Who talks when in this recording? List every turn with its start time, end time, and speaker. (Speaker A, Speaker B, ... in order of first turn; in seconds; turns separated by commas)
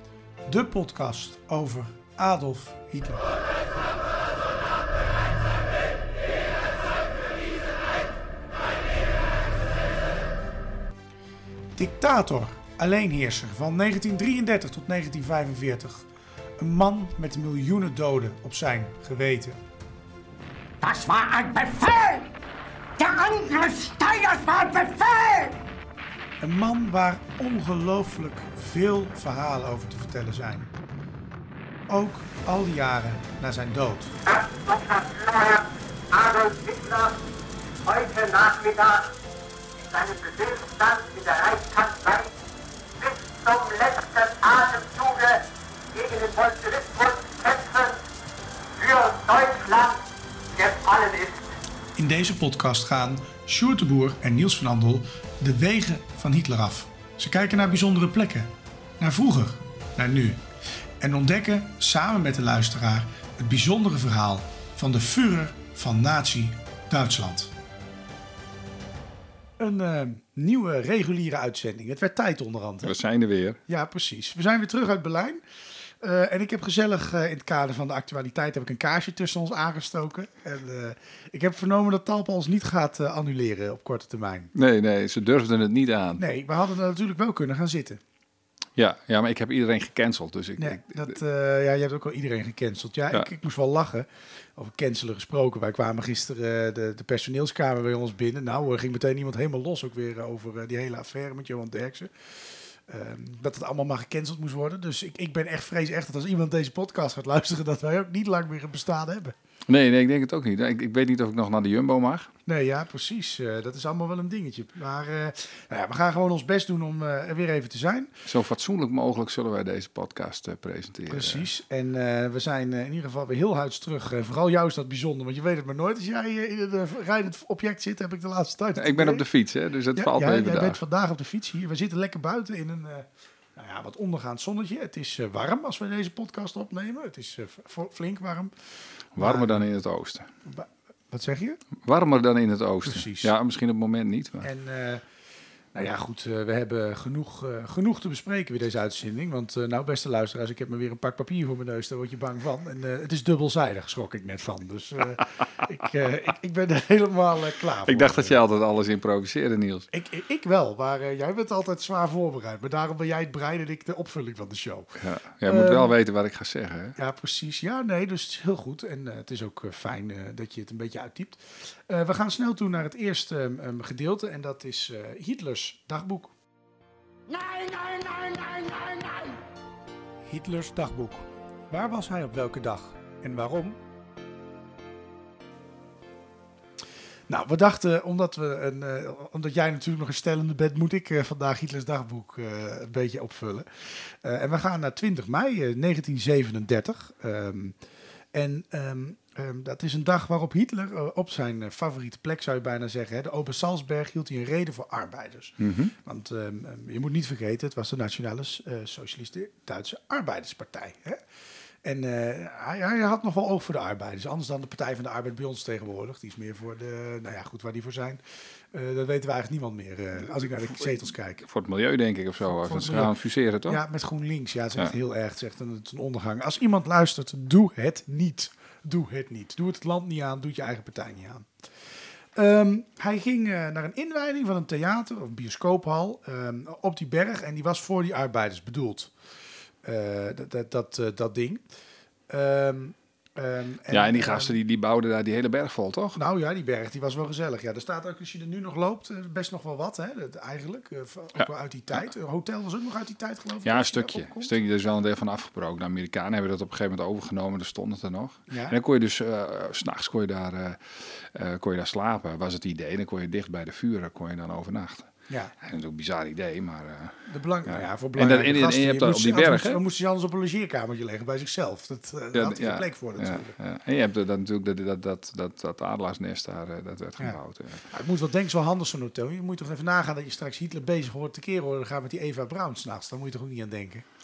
Speaker A: 0.4-3.3, Speaker A: 11.8-16.1, Speaker A: 16.6-19.6, Speaker B: 20.8-22.2, Speaker B: 23.0-25.5, Speaker A: 26.4-30.7, Speaker A: 31.9-34.1, Speaker B: 34.2-37.2, Speaker B: 37.9-39.1, Speaker B: 39.8-42.3, Speaker B: 43.0-48.0, Speaker B: 48.8-51.5, Speaker A: 52.0-58.5, Speaker A: 59.0-60.4, Speaker A: 61.0-67.5, Speaker A: 69.6-72.9, Speaker C: 72.8-73.6, Speaker A: 73.7-75.4, Speaker A: 76.0-84.5, Speaker C: 84.5-86.2, Speaker A: 86.2-88.0, Speaker C: 88.8-91.2, Speaker A: 90.6-109.3, Speaker C: 109.7-112.3, Speaker A: 112.5-118.1, Speaker C: 118.2-121.5, Speaker A: 121.1-129.2, Speaker C: 128.8-130.8, Speaker A: 129.9-138.5, Speaker C: 139.2-140.3, Speaker A: 139.2-139.6, Speaker A: 140.4-141.6, Speaker C: 141.8-144.5, Speaker A: 142.8-143.3, Speaker A: 144.4-145.0, Speaker A: 145.7-158.4, Speaker C: 157.8-159.9, Speaker A: 159.9-165.9, Speaker C: 165.0-167.0, Speaker A: 167.0-176.3, Speaker B: 177.3-179.4, Speaker A: 180.3-183.8, Speaker A: 187.3-197.8, Speaker A: 198.3-211.2, Speaker C: 205.6-205.9, Speaker A: 211.8-218.2, Speaker A: 218.7-221.4, Speaker C: 220.5-223.8, Speaker A: 222.6-223.1, Speaker A: 223.7-231.5, Speaker A: 232.3-239.1, Speaker A: 239.8-241.6, Speaker A: 242.3-244.6, Speaker C: 243.9-246.2, Speaker A: 246.2-254.6, Speaker C: 253.6-269.8, Speaker A: 258.5-258.8, Speaker A: 267.3-273.6, Speaker C: 272.3-277.9, Speaker A: 277.2-284.1